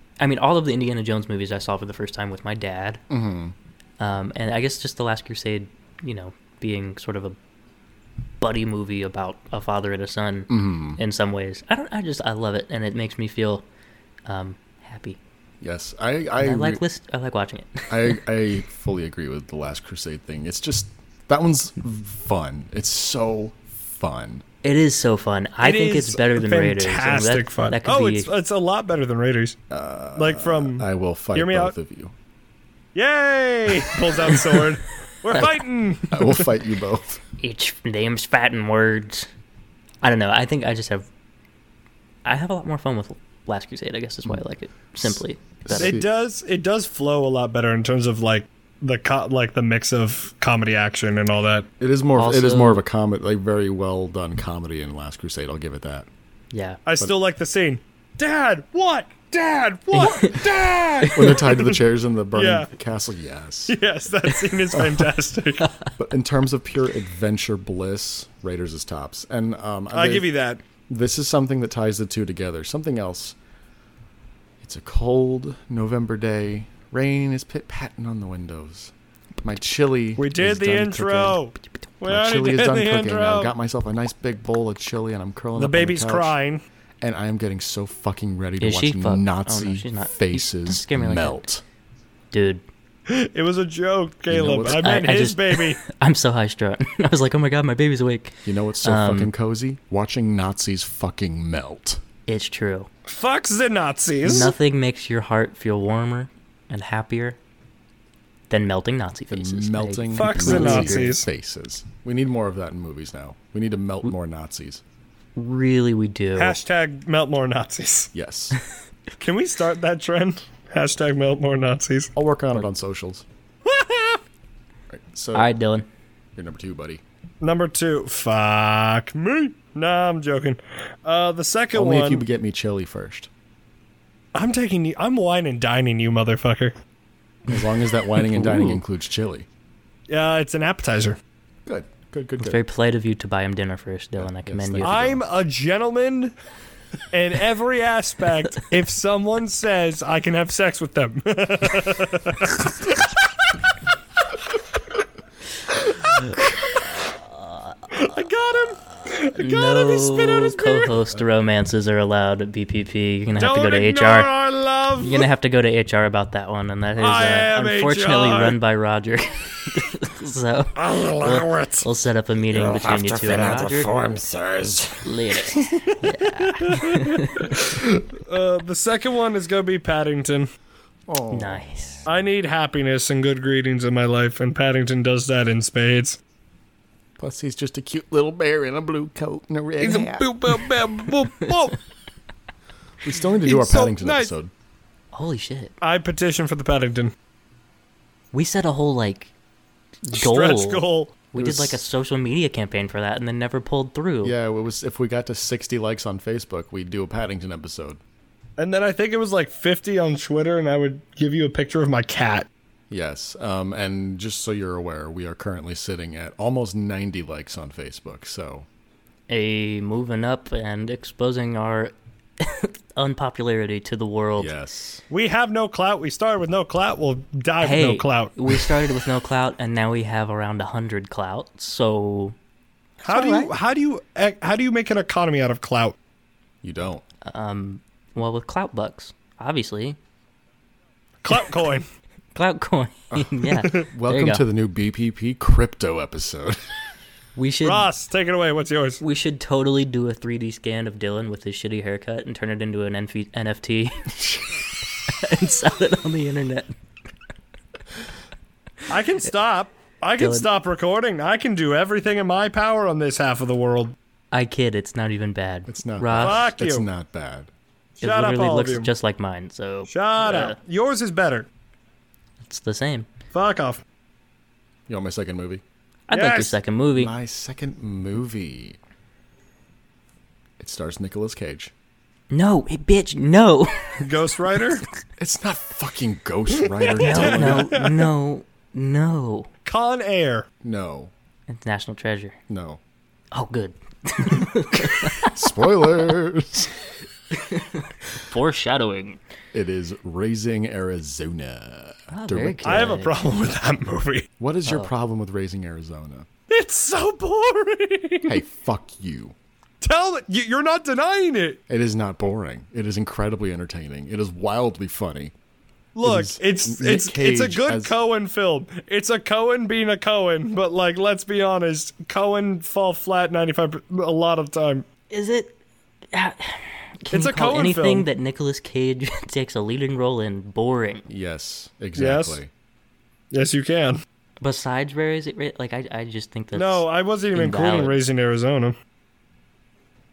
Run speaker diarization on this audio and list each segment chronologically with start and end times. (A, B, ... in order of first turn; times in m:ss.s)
0:00.2-0:03.0 A
0:03.1-0:03.5 B
0:04.0-0:07.4 A
0:08.4-0:13.6 A
0:10.5-0:11.0 B
0:14.2-0:15.2 A
0:15.6-0:16.8 B
0:16.4-0:18.2 A
0:17.9-0:24.4 B
0:24.6-0:28.3 A
0:25.6-0:29.6 C
0:29.7-0:32.1 B
0:30.2-0:31.7 C
0:32.9-0:36.4 C
0:36.1-0:37.2 B
0:37.4-0:39.3 A
0:40.0-0:41.1 A
0:42.2-0:46.0 A
0:45.0-0:46.1 B
0:45.7-0:51.7 C
0:51.8-0:56.1 B
0:52.2-0:52.8 A
0:56.5-0:56.8 A
0:56.8-1:01.7 C
0:59.9-1:00.4 A
1:01.0-1:01.4 A
1:01.1-1:03.8 B
1:02.3-1:02.7 C
1:03.7-1:05.7 C
1:04.7-1:05.0 B
1:05.6-1:05.9 A
1:06.0-1:10.3 B
1:09.9-1:10.6 C
1:10.9-1:13.4 B
1:14.6-1:21.4 B
1:20.2-1:23.5 C
1:22.0-1:26.4 B
1:25.6-1:26.6 C
1:27.0-1:31.6 B
1:28.6-1:31.5 A
1:32.3-1:32.6 A
1:33.1-1:35.8 C
1:34.3-1:35.1 B
1:34.6-1:39.3 A
1:38.4-1:42.0 B
1:42.3-1:42.9 A
1:43.1-1:44.5 C
1:44.2-1:47.4 A
1:48.5-1:51.1 A
1:49.3-1:54.8 B
1:50.1-1:51.2 C
1:55.4-1:56.6 A
1:56.4-1:58.1 C
1:58.1-1:58.6 B
1:59.2-2:02.1 C
2:02.1-2:03.2 B
2:03.6-2:04.2 C
2:04.9-2:05.5 B
2:05.3-2:05.9 A
2:06.3-2:07.0 B
2:07.4-2:12.2 C
2:11.7-2:13.3 B
2:14.3-2:16.7 C
2:17.5-2:19.5 B
2:17.5-2:18.8 A
2:20.1-2:21.2 C
2:21.6-2:22.6 B
2:22.4-2:25.1 A
2:24.2-2:25.2 B
2:24.8-2:26.3 C
2:27.1-2:32.7 C
2:37.9-2:40.9 C
2:39.3-2:44.3 A
2:43.4-2:45.3 C
2:45.0-2:53.9 A
2:47.0-2:48.6 C
2:50.8-2:51.8 C
2:52.6-2:55.0 B
2:55.0-2:57.6 A
2:55.5-3:00.5 C
3:01.1-3:02.1 B
3:01.3-3:02.0 A
3:02.0-3:06.2 C
3:07.2-3:10.3 B
3:09.8-3:11.8 C
3:13.0-3:14.5 B
3:13.4-3:14.3 C
3:15.1-3:15.7 A
3:15.8-3:17.1 C
3:18.3-3:19.3 A
3:20.0-3:24.3 A
3:20.1-3:21.3 C
3:21.4-3:21.8 B
3:24.2-3:28.0 B
3:28.6-3:32.5 C
3:32.9-3:38.7 B
3:39.3-3:44.5 A
3:44.4-3:45.0 B
3:45.1-3:48.8 C
3:47.6-3:52.4 A
3:53.0-3:53.5 A
3:53.0-3:55.9 C
3:56.6-3:57.0 B
3:57.2-4:00.0 A
4:01.2-4:01.9 C
4:02.3-4:04.4 A
4:03.1-4:06.6 B
4:07.4-4:07.9 A
4:07.6-4:09.0 C
4:09.0-4:14.4 A
4:15.1-4:16.7 A
4:18.9-4:23.9 C
4:20.2-4:20.5 A
4:24.3-4:26.5 A
4:25.7-4:27.5 B
4:26.2-4:26.8 C
4:28.0-4:28.9 C
4:28.0-4:30.6 A
4:29.9-4:31.5 C
4:32.4-4:33.1 A
4:33.3-4:33.8 C
4:34.9-4:35.6 B
4:36.1-4:37.1 A
4:36.1-4:36.6 C
4:36.9-4:38.8 B
4:40.6-4:41.7 B
4:42.3-4:44.1 A
4:44.0-4:44.8 C
4:45.2-4:47.7 B
4:46.6-4:48.1 C
4:47.0-4:49.5 A
4:49.6-4:50.5 C
4:50.6-4:51.1 B
4:51.5-4:52.4 A
4:52.5-4:52.8 B
4:53.3-4:55.4 A
4:55.2-4:56.7 B
4:57.3-4:59.2 A
4:59.5-5:03.0 B
5:02.1-5:03.1 A
5:02.6-5:04.3 C
5:04.4-5:06.3 B
5:04.6-5:04.9 A
5:06.5-5:08.4 C
5:08.2-5:09.3 B
5:09.8-5:11.6 C
5:11.7-5:15.3 B
5:16.0-5:24.8 C
5:16.0-5:18.0 B
5:25.1-5:25.6 A
5:26.1-5:31.1 A
5:27.1-5:28.1 C
5:31.1-5:32.5 B
5:32.0-5:32.4 C
5:33.3-5:34.0 C
5:34.4-5:38.0 A
5:36.5-5:38.7 C